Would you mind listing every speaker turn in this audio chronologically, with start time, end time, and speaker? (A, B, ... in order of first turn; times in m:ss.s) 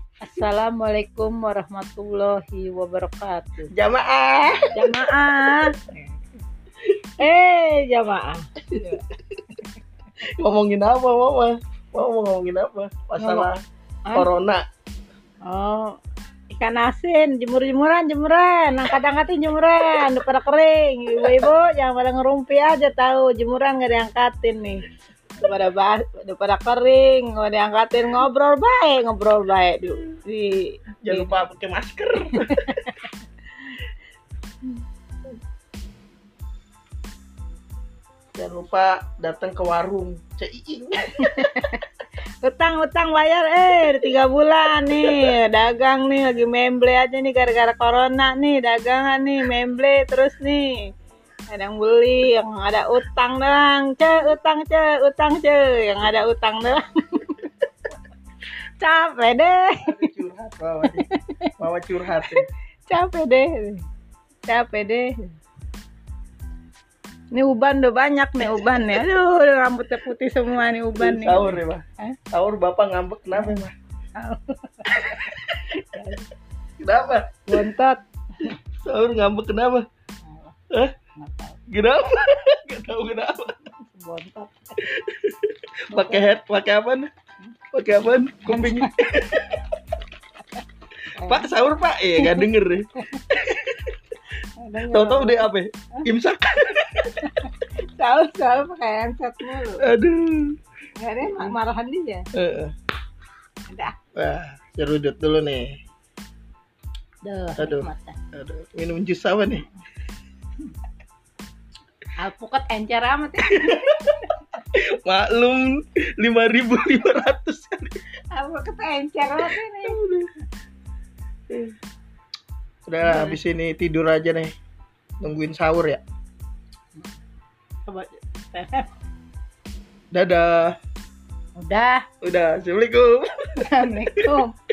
0:00.2-0:03.7 A
0:03.7-0:05.1 B
0:04.8-0:06.0 A
0:07.2-0:09.0 A
0:08.7-0:09.2 B
0:10.3-0:13.6 B
0:13.2-0:13.5 A
0:14.1-0:14.6 B
0:15.4-0:16.0 A
0:16.5-0:24.8 A
0:25.4-0:31.4 A
0:31.0-0:32.8 B
0:32.3-0:33.0 A
0:38.4-0:41.7 B
0:41.2-0:41.8 A
0:42.4-0:50.9 A
0:44.9-0:45.3 B
0:51.5-0:57.5 A
0:58.8-1:00.1 A
0:59.8-1:01.1 B
1:00.8-1:01.5 A
1:01.6-1:02.5 B
1:02.2-1:03.8 A
1:04.5-1:05.3 A
1:07.3-1:12.2 A
1:08.4-1:09.0 B
1:11.0-1:13.7 B
1:13.4-1:13.6 A
1:14.2-1:16.3 A
1:14.9-1:15.4 B
1:16.8-1:17.4 B
1:17.5-1:18.6 A
1:18.8-1:19.8 B
1:20.3-1:20.6 A
1:21.2-1:22.4 A
1:21.7-1:23.6 B
1:23.8-1:24.8 A
1:24.8-1:27.1 B
1:25.9-1:26.3 A
1:27.7-1:29.6 B
1:28.5-1:29.5 A
1:31.1-1:31.5 A
1:31.2-1:33.9 B
1:32.2-1:33.8 A
1:34.6-1:36.1 A
1:34.8-1:37.2 B
1:37.0-1:39.8 A
1:39.8-1:40.6 B
1:41.0-1:42.2 A
1:42.3-1:42.7 B
1:43.7-1:44.0 A
1:44.2-1:45.8 B
1:47.2-1:48.2 A
1:47.6-1:49.6 B
1:52.2-1:54.6 A
1:53.5-1:54.2 B
1:54.7-1:58.0 B
1:58.3-2:00.0 A
1:59.3-2:00.3 B
2:02.9-2:04.5 B
2:03.0-2:03.4 A
2:05.2-2:06.0 B
2:07.9-2:08.9 A
2:10.1-2:10.8 B
2:11.6-2:12.1 A
2:12.2-2:14.4 B
2:13.6-2:14.5 A